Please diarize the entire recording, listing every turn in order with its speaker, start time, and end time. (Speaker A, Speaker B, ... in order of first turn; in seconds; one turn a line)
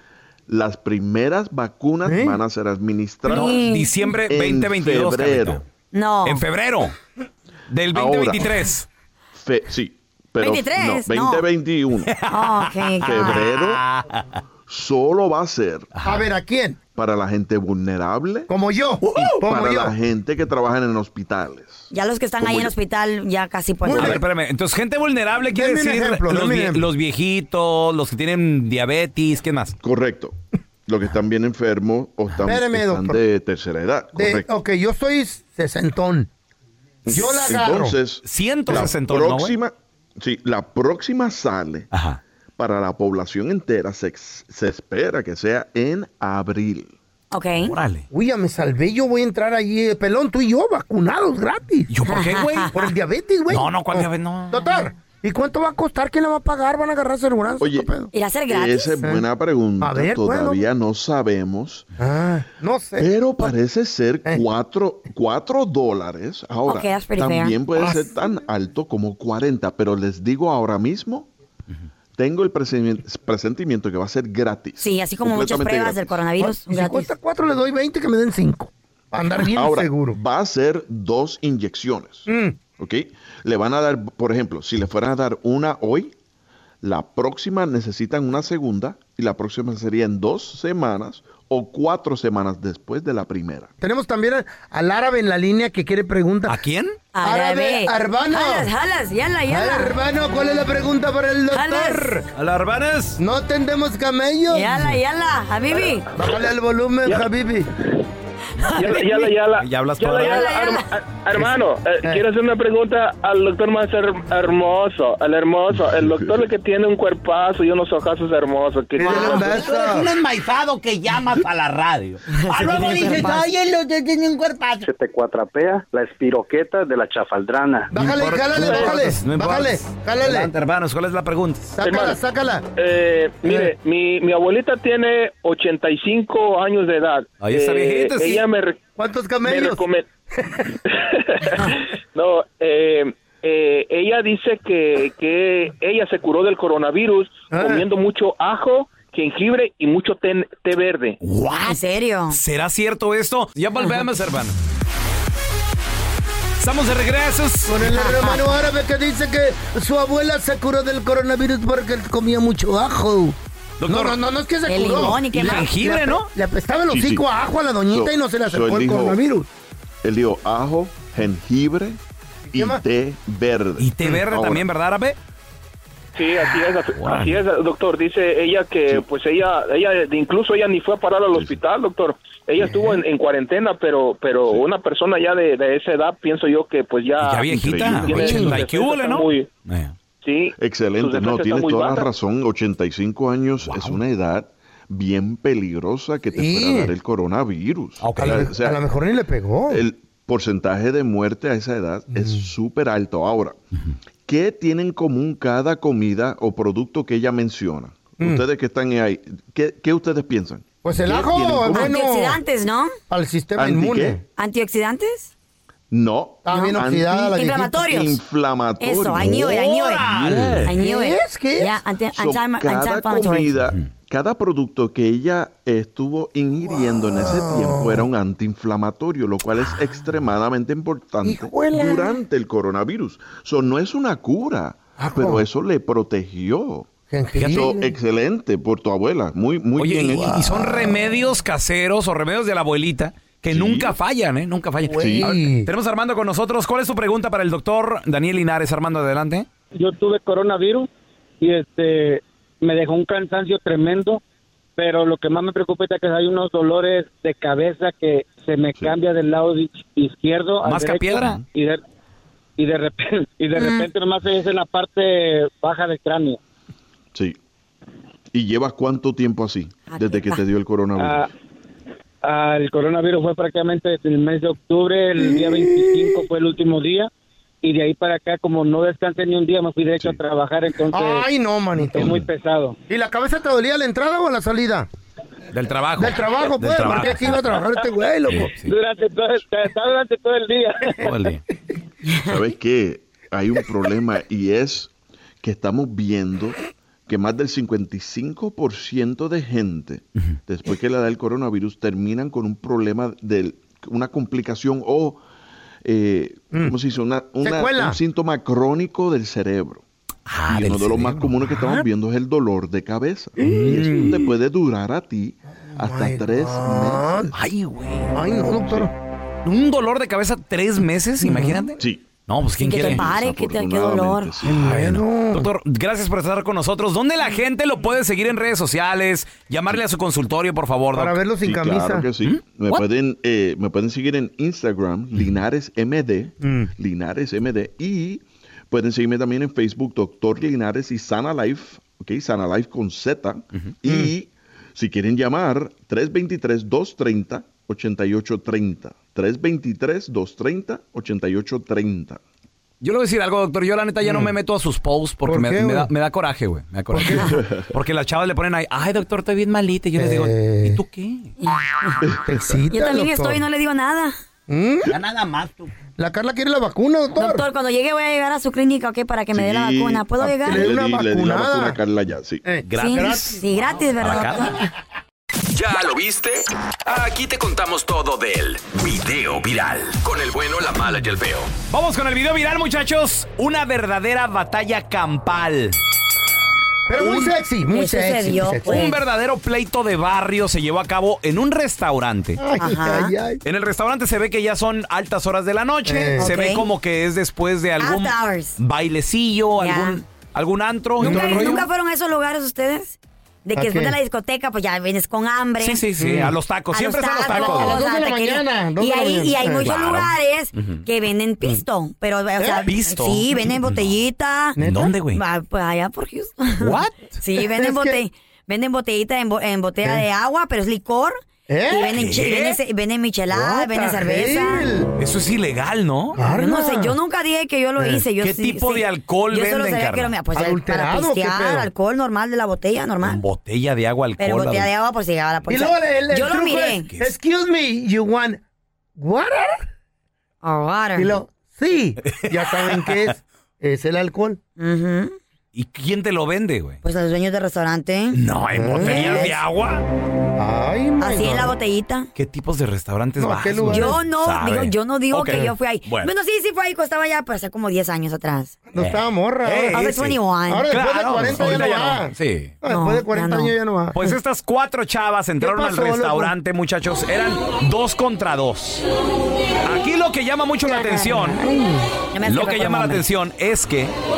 Speaker A: 0.5-3.6
Speaker B: 2.0-2.4
Speaker C: 3.2-4.1
Speaker D: 3.3-5.6
Speaker A: 4.2-5.6
Speaker C: 5.9-6.4
Speaker D: 6.2-6.9
Speaker D: 7.7-8.8
Speaker A: 7.9-8.7
Speaker A: 9.3-12.2
Speaker C: 10.4-11.4
Speaker D: 12.1-14.2
Speaker C: 12.3-13.5
Speaker A: 13.0-13.8
Speaker A: 14.7-15.9
Speaker D: 15.9-16.2
Speaker B: 16.0-16.8
Speaker A: 16.9-18.5
Speaker B: 18.5-19.9
Speaker A: 19.1-21.9
Speaker C: 21.9-24.2
Speaker A: 22.4-22.7
Speaker B: 23.8-24.2
Speaker D: 23.9-29.8
Speaker B: 25.5-26.9
Speaker A: 29.8-34.5
Speaker B: 32.4-33.2
Speaker B: 34.1-36.3
Speaker B: 37.0-38.0
Speaker A: 37.0-41.9
Speaker D: 38.2-39.5
Speaker D: 41.9-42.2
Speaker A: 42.6-46.9
Speaker C: 47.3-47.7
Speaker D: 47.6-48.0
Speaker B: 48.1-51.9
Speaker D: 51.9-52.7
Speaker C: 52.0-52.7
Speaker B: 52.7-58.1
Speaker D: 53.5-54.8
Speaker A: 57.6-57.9
Speaker C: 58.1-59.0
Speaker A: 58.5-61.9
Speaker B: 59.8-60.6
Speaker B: 62.0-63.5
Speaker A: 63.0-71.3
Speaker C: 66.7-67.6
Speaker B: 67.8-68.2
Speaker A: 72.2-76.2
Speaker C: 74.8-77.1
Speaker B: 76.4-80.2
Speaker A: 79.4-86.1
Speaker B: 82.3-82.6
Speaker A: 86.8-93.7
Speaker B: 93.8-96.6
Speaker D: 96.5-97.0
Speaker C: 97.1-99.9
Speaker B: 97.2-98.7
Speaker B: 99.5-102.2
Speaker C: 101.5-102.2
Speaker D: 102.3-103.2
Speaker B: 103.2-105.0
Speaker C: 104.5-106.1
Speaker B: 106.1-107.7
Speaker C: 108.6-109.0
Speaker E: 108.7-119.6
Speaker D: 109.6-110.5
Speaker C: 110.2-110.8
Speaker B: 119.0-120.1
Speaker F: 119.1-124.9
Speaker C: 122.3-123.5
Speaker G: 124.8-127.9
Speaker B: 127.9-130.5
Speaker D: 128.0-131.8
Speaker E: 128.6-128.9
Speaker B: 131.8-132.7
Speaker E: 131.8-132.2
Speaker E: 132.8-138.8
Speaker B: 133.4-133.7
Speaker D: 137.4-138.4
Speaker B: 139.0-139.8
Speaker E: 139.4-140.0
Speaker E: 140.9-151.2
Speaker B: 147.5-147.8
Speaker D: 151.2-151.8
Speaker C: 151.7-152.4
Speaker D: 152.3-154.5
Speaker D: 156.6-157.7
Speaker B: 157.7-163.3
Speaker C: 157.8-158.4
Speaker D: 163.8-164.2
Speaker B: 163.9-169.5
Speaker C: 164.7-165.7
Speaker D: 165.3-166.3
Speaker A: 166.9-167.2
Speaker A: 167.9-169.2
Speaker A: 170.0-172.0
Speaker B: 172.5-172.8
Speaker A: 172.5-174.7
Speaker D: 173.8-175.2
Speaker E: 176.1-189.5
Speaker D: 176.9-177.4
Speaker A: 181.3-181.6
Speaker D: 187.2-189.9
Speaker A: 187.5-188.3
Speaker B: 188.2-188.6
Speaker E: 190.2-192.1
Speaker A: 190.6-198.8
Speaker D: 193.7-194.0
Speaker B: 196.3-196.9
Speaker D: 198.0-198.5
Speaker B: 198.2-199.8
Speaker A: 199.7-203.6
Speaker B: 202.1-202.5
Speaker A: 204.2-212.0
Speaker B: 210.8-212.4
Speaker C: 211.7-212.9
Speaker B: 213.1-214.2
Speaker A: 213.6-214.2
Speaker C: 214.3-215.3
Speaker A: 215.9-220.7
Speaker B: 216.4-217.8
Speaker C: 216.5-218.2
Speaker C: 218.8-220.1
Speaker F: 219.9-220.3
Speaker D: 220.0-220.7
Speaker C: 220.7-223.5
Speaker B: 220.7-221.8
Speaker A: 222.1-240.4
Speaker B: 227.1-228.1
Speaker B: 231.2-232.2
Speaker B: 235.0-235.4
Speaker B: 237.1-237.9
Speaker D: 237.3-237.7
Speaker D: 239.8-249.5
Speaker B: 240.2-241.0
Speaker A: 243.5-243.9
Speaker B: 244.8-245.7
Speaker A: 244.9-245.3
Speaker H: 249.7-250.9
Speaker H: 251.4-254.2
Speaker H: 254.8-261.8
Speaker D: 260.6-261.4
Speaker A: 261.1-261.4
Speaker H: 262.6-266.4
Speaker C: 263.5-263.9
Speaker A: 268.3-271.3
Speaker C: 269.9-270.4
Speaker H: 271.0-271.3
Speaker H: 272.2-277.1
Speaker B: 275.2-276.0
Speaker H: 277.6-281.2
Speaker B: 280.9-282.2
Speaker H: 281.9-282.8
Speaker B: 282.9-284.9
Speaker D: 285.5-287.6
Speaker B: 286.0-288.5
Speaker D: 288.3-288.7
Speaker H: 288.6-291.2
Speaker D: 291.0-291.4
Speaker A: 292.2-294.9
Speaker A: 295.4-305.2
Speaker A: 305.8-309.8
Speaker B: 307.4-308.0
Speaker D: 310.3-311.8
Speaker A: 310.5-317.3
Speaker B: 313.4-314.3
Speaker D: 313.4-314.1
Speaker B: 315.7-317.3
Speaker D: 317.3-318.1
Speaker B: 318.1-318.9
Speaker D: 319.4-323.1
Speaker B: 321.2-321.7
Speaker A: 321.8-322.1
Speaker C: 322.6-324.3
Speaker A: 322.7-324.8
Speaker B: 324.4-325.5
Speaker D: 324.5-331.2
Speaker B: 330.9-332.1
Speaker A: 331.4-352.2
Speaker D: 332.2-332.8
Speaker B: 336.4-336.7
Speaker B: 343.8-344.1
Speaker D: 352.8-361.3
Speaker B: 354.0-354.3
Speaker B: 355.2-355.9
Speaker B: 356.9-357.4
Speaker A: 357.3-357.6
Speaker B: 359.9-360.8
Speaker C: 361.4-362.0
Speaker B: 362.2-363.4
Speaker C: 362.7-364.1
Speaker B: 364.5-365.0
Speaker F: 364.9-365.7
Speaker B: 366.0-367.4
Speaker C: 367.2-370.6
Speaker A: 369.3-372.4
Speaker B: 370.4-371.8
Speaker B: 372.4-373.4
Speaker D: 372.6-373.4
Speaker C: 372.8-374.6
Speaker D: 374.0-374.5
Speaker I: 375.5-381.5
Speaker D: 381.7-385.8
Speaker B: 386.9-388.9
Speaker C: 387.0-389.0
Speaker D: 388.6-392.4
Speaker B: 392.4-393.4
Speaker C: 392.6-393.1
Speaker D: 393.4-401.6
Speaker B: 395.9-396.3
Speaker C: 396.2-396.7
Speaker C: 397.8-398.6
Speaker C: 399.6-400.0
Speaker B: 401.0-401.6
Speaker C: 401.0-405.9
Speaker B: 403.6-404.0
Speaker D: 405.6-407.8
Speaker B: 406.0-406.4
Speaker C: 406.7-414.6
Speaker B: 407.3-409.7
Speaker D: 409.6-410.8
Speaker B: 412.4-412.6
Speaker D: 412.6-413.9
Speaker B: 414.6-414.9
Speaker D: 414.6-415.2
Speaker C: 415.1-424.7
Speaker D: 416.6-417.2
Speaker B: 417.4-418.0
Speaker B: 421.5-421.9
Speaker D: 421.9-422.6
Speaker B: 423.3-424.9
Speaker D: 425.0-426.2
Speaker B: 426.1-426.9
Speaker C: 426.2-433.2
Speaker B: 427.8-428.0
Speaker D: 428.2-430.1
Speaker B: 430.3-431.7
Speaker D: 433.0-434.7
Speaker C: 434.2-436.9
Speaker B: 435.5-438.4
Speaker D: 436.9-437.1
Speaker B: 438.9-439.7
Speaker C: 440.4-441.1
Speaker B: 440.9-444.4
Speaker D: 442.1-443.1
Speaker C: 444.6-445.1
Speaker D: 445.5-446.8
Speaker C: 446.8-448.2
Speaker D: 448.1-449.8
Speaker B: 448.5-449.3
Speaker C: 448.8-449.4
Speaker B: 450.4-451.5
Speaker C: 451.0-452.1
Speaker D: 452.1-456.1
Speaker B: 453.2-454.0
Speaker C: 453.7-458.6
Speaker B: 458.7-459.9
Speaker D: 458.8-460.2
Speaker C: 459.7-460.7
Speaker B: 460.5-463.9
Speaker D: 460.7-462.6
Speaker C: 461.3-461.6
Speaker C: 462.6-463.5
Speaker D: 463.9-468.9
Speaker B: 465.4-466.3
Speaker D: 469.6-471.4
Speaker B: 470.6-471.9
Speaker C: 472.1-473.0
Speaker D: 472.2-473.9